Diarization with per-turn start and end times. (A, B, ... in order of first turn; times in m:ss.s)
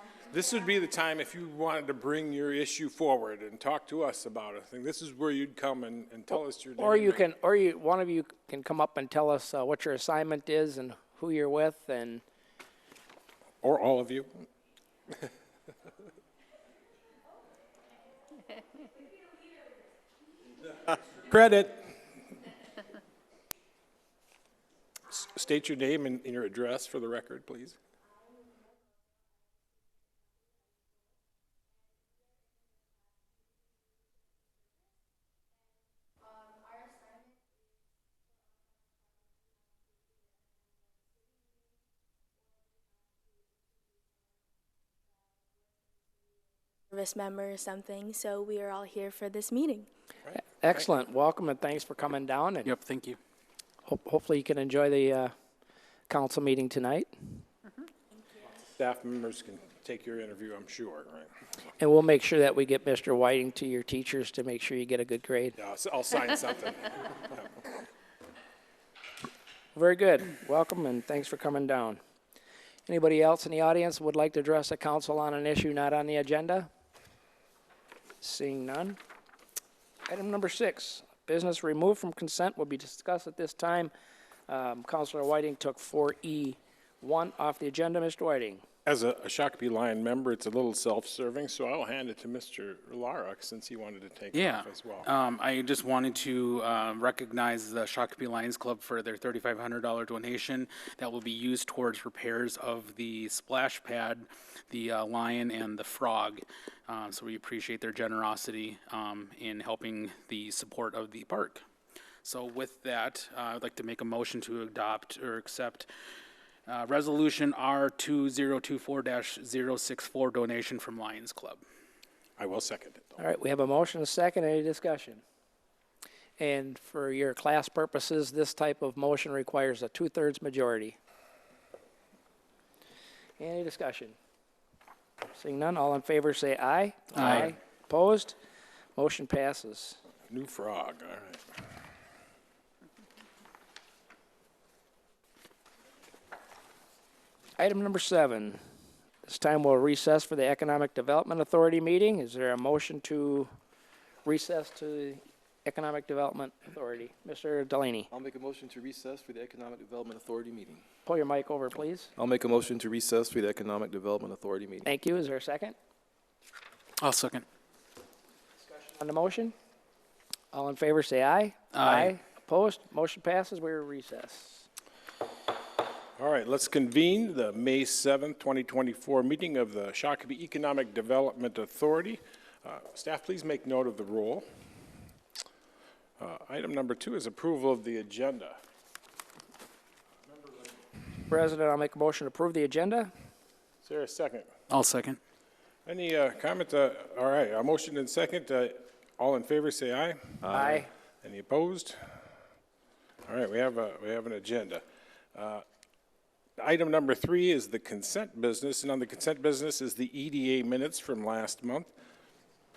0:00.3-0:07.3 A
0:06.8-0:12.2 B
0:13.6-0:14.4 A
0:21.2-0:21.9 A
0:25.1-0:27.8 A
0:46.9-0:49.9 C
0:50.6-0:52.7 B
0:52.6-0:53.2 D
0:53.8-0:55.3 B
0:56.1-0:57.4 B
0:58.8-1:01.3 A
1:01.8-1:05.6 B
1:05.6-1:07.5 A
1:09.7-1:12.0 B
1:12.9-1:16.7 B
1:18.2-1:19.0 B
1:20.1-1:23.9 B
1:24.5-1:28.6 B
1:28.9-1:35.1 A
1:34.3-1:51.6 D
1:52.2-1:55.9 D
1:56.7-2:01.6 D
2:02.4-2:03.1 A
2:03.2-2:05.2 B
2:06.4-2:11.0 B
2:13.4-2:14.2 B
2:15.3-2:18.4 B
2:17.1-2:17.5 D
2:19.0-2:20.0 B
2:20.3-2:21.4 A
2:27.6-2:28.6 B
2:29.2-2:33.5 B
2:34.2-2:38.1 B
2:38.1-2:40.8 E
2:41.0-2:42.1 B
2:42.2-2:44.9 E
2:44.8-2:45.8 B
2:47.0-2:47.4 D
2:48.6-2:49.5 B
2:50.5-2:54.7 B
2:51.7-2:52.1 D
2:56.2-3:04.4 A
3:06.2-3:08.6 A
3:11.3-3:13.1 B
3:13.8-3:14.5 A
3:14.7-3:15.2 D
3:15.8-3:20.4 A
3:20.4-3:20.8 E
3:20.5-3:20.9 B
3:21.2-3:22.0 A
3:23.3-3:24.8 A
3:25.3-3:25.6 A
3:26.6-3:31.9 A